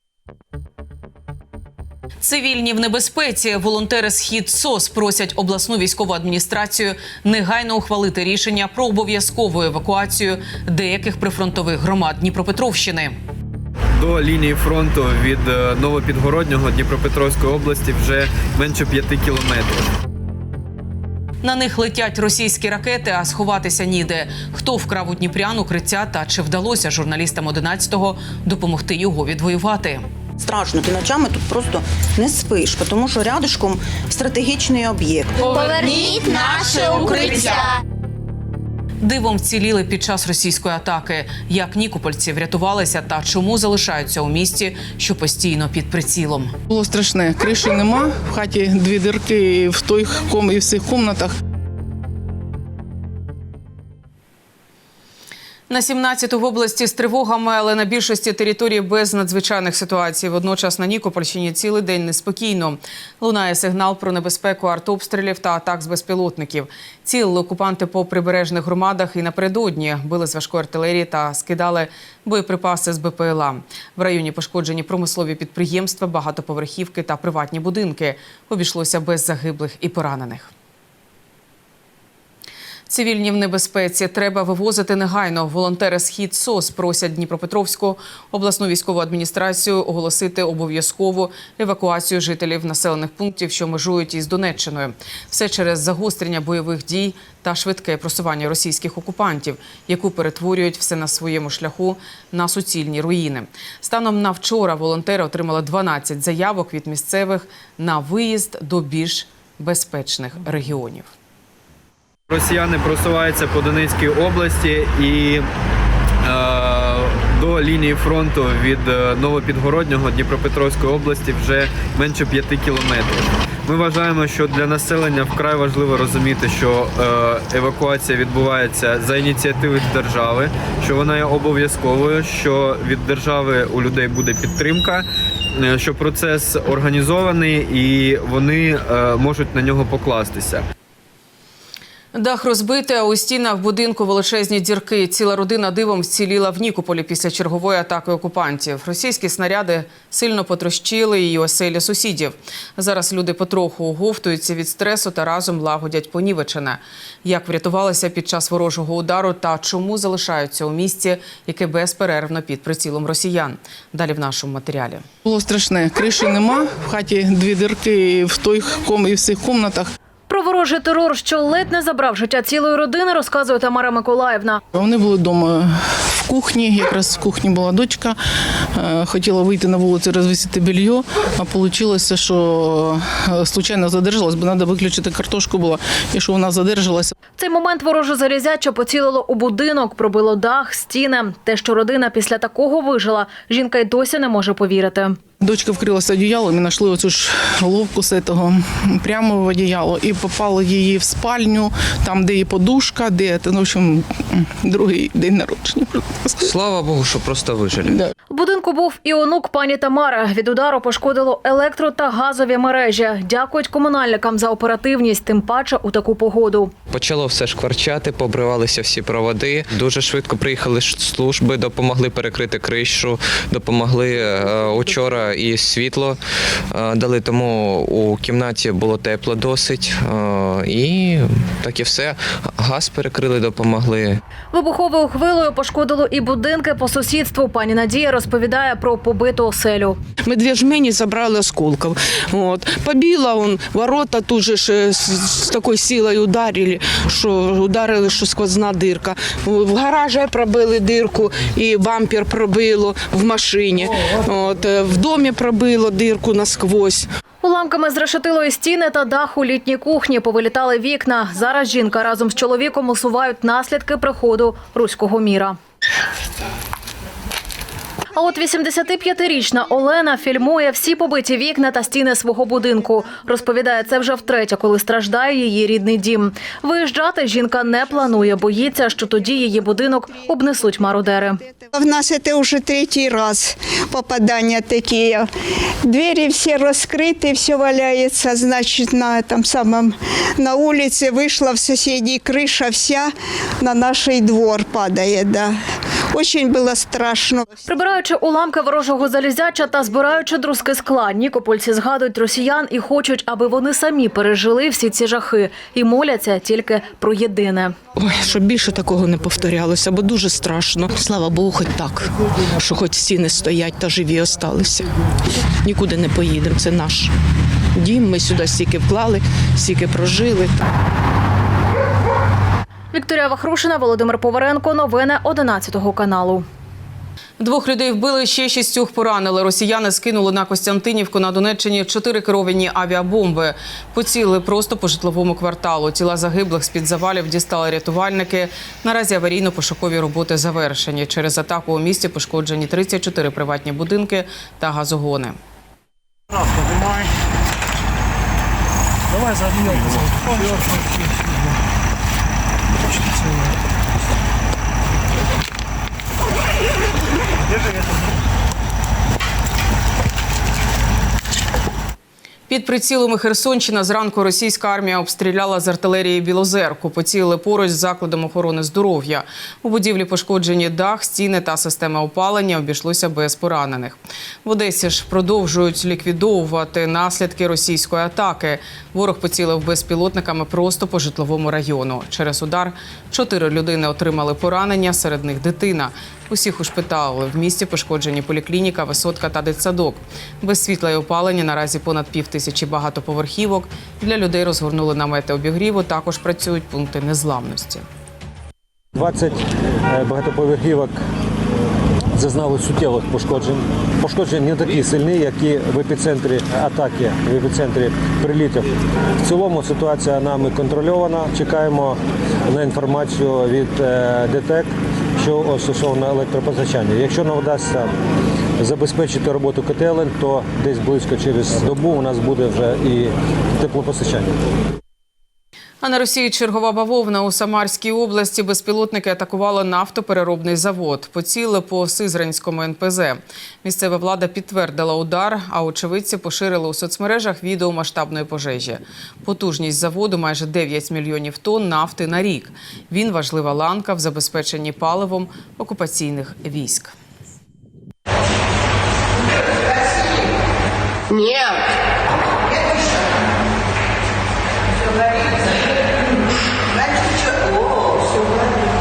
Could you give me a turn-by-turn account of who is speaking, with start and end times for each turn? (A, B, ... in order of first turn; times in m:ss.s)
0:02.2-0:13.2 A
0:14.0-0:19.9 B
0:21.4-0:30.1 A
0:30.4-0:37.6 C
0:39.0-0:46.5 A
0:46.7-0:51.3 D
0:55.7-1:20.5 A
1:22.9-1:51.1 A
1:52.3-1:55.4 B
1:56.2-2:20.6 B
2:22.1-2:45.0 A
2:45.2-2:49.9 D
2:50.3-2:54.6 E
2:54.7-3:07.1 D
3:07.4-3:15.2 E
3:15.4-3:26.4 D
3:26.4-3:28.0 F
3:28.3-3:36.7 E
3:36.9-3:54.2 F
3:54.5-4:00.0 E
4:00.2-4:17.1 G
4:17.4-4:25.6 E
4:28.1-4:41.4 E
4:41.7-4:45.3 H
4:45.8-4:55.6 H
4:56.1-4:57.5 H
4:57.6-5:07.8 E
5:08.0-5:14.9 G
5:15.6-5:17.1 G
5:17.7-5:20.5 G
5:22.9-5:26.4 E
5:27.4-5:45.4 A
6:02.5-6:37.8 A
6:38.9-6:41.0 I
6:42.1-6:48.7 I
6:49.2-6:57.9 I
6:58.6-7:04.4 I
7:05.8-7:26.9 A